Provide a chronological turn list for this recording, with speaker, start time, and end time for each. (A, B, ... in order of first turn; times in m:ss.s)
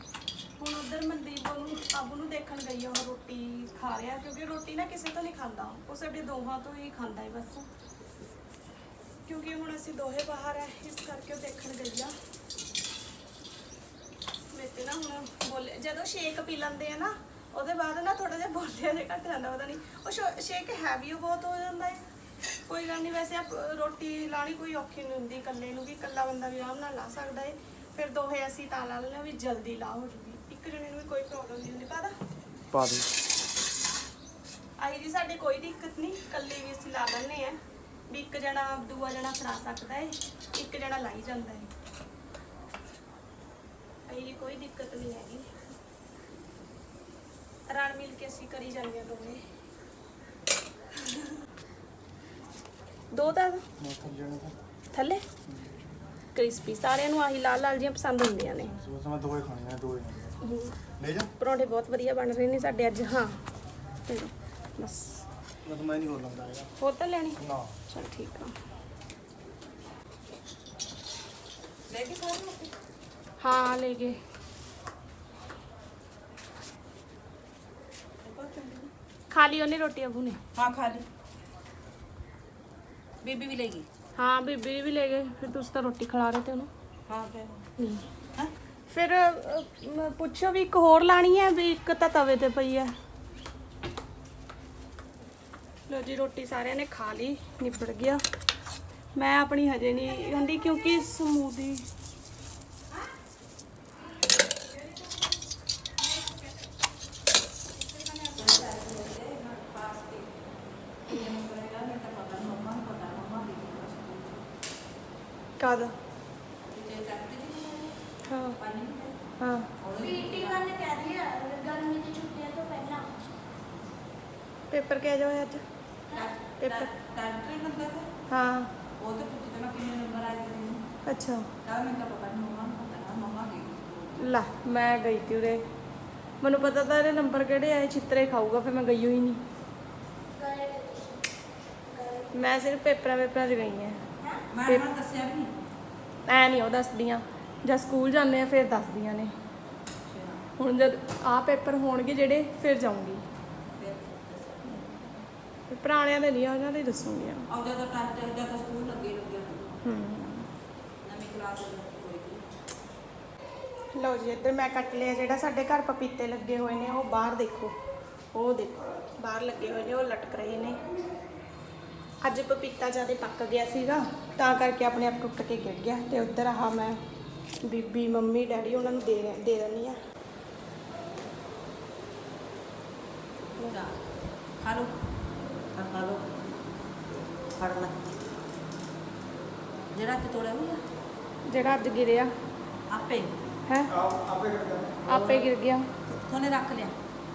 0:00.6-0:07.6 A
0:09.2-0:12.1 A
0:14.5-0:22.0 A
0:22.7-0:32.1 A
0:32.7-0:33.0 B
0:34.8-0:41.7 A
0:44.1-0:45.5 A
0:47.7-0:49.4 A
0:53.1-0:53.6 A
0:53.8-0:54.5 B
0:54.9-0:55.2 A
0:56.3-0:58.8 A
0:58.7-1:00.3 B
1:00.4-1:00.8 A
1:01.0-1:01.3 B
1:01.4-1:03.4 A
1:04.1-1:05.2 A
1:05.6-1:06.7 B
1:06.8-1:08.5 A
1:07.4-1:07.7 B
1:11.9-1:12.7 C
1:13.4-1:14.2 A
1:18.2-1:18.9 C
1:19.3-1:20.4 A
1:20.5-1:21.0 C
1:23.2-1:23.9 C
1:24.2-1:26.7 A
1:27.1-1:27.6 C
1:27.8-1:28.0 A
1:28.9-1:32.9 A
1:35.9-1:38.2 A
1:39.1-1:41.8 A
1:48.3-1:50.4 C
1:51.0-1:54.4 C
1:55.6-1:55.9 A
1:56.7-1:57.9 C
1:58.3-1:58.6 A
1:58.6-1:59.2 C
1:59.4-1:59.7 A
1:59.8-2:00.7 C
2:00.0-2:03.2 D
2:04.7-2:05.6 A
2:06.1-2:08.1 C
2:06.5-2:06.9 A
2:08.3-2:08.7 A
2:09.0-2:10.8 C
2:11.0-2:11.5 A
2:11.6-2:14.1 C
2:14.2-2:15.6 A
2:16.4-2:19.4 A
2:20.4-2:21.2 D
2:21.9-2:22.3 D
2:22.3-2:24.0 A
2:24.5-2:25.5 C
2:24.6-2:24.9 A
2:26.2-2:29.3 A
2:30.1-2:30.4 C
2:30.6-2:33.2 A
2:33.7-2:34.8 C
2:34.6-2:37.5 A
2:37.5-2:39.7 C
2:39.8-2:40.5 A
2:41.0-2:42.4 C
2:43.9-2:47.7 A
2:48.3-2:50.8 A
2:52.2-2:57.0 A
2:57.6-3:00.0 A
3:03.7-3:04.0 C
3:04.6-3:04.9 C
3:05.7-3:06.2 C
3:07.6-3:08.0 C
3:09.9-3:10.8 C
3:11.5-3:12.3 A
3:12.9-3:13.3 C
3:14.1-3:14.9 B
3:15.0-3:15.9 A
3:15.1-3:15.5 C
3:16.1-3:16.9 C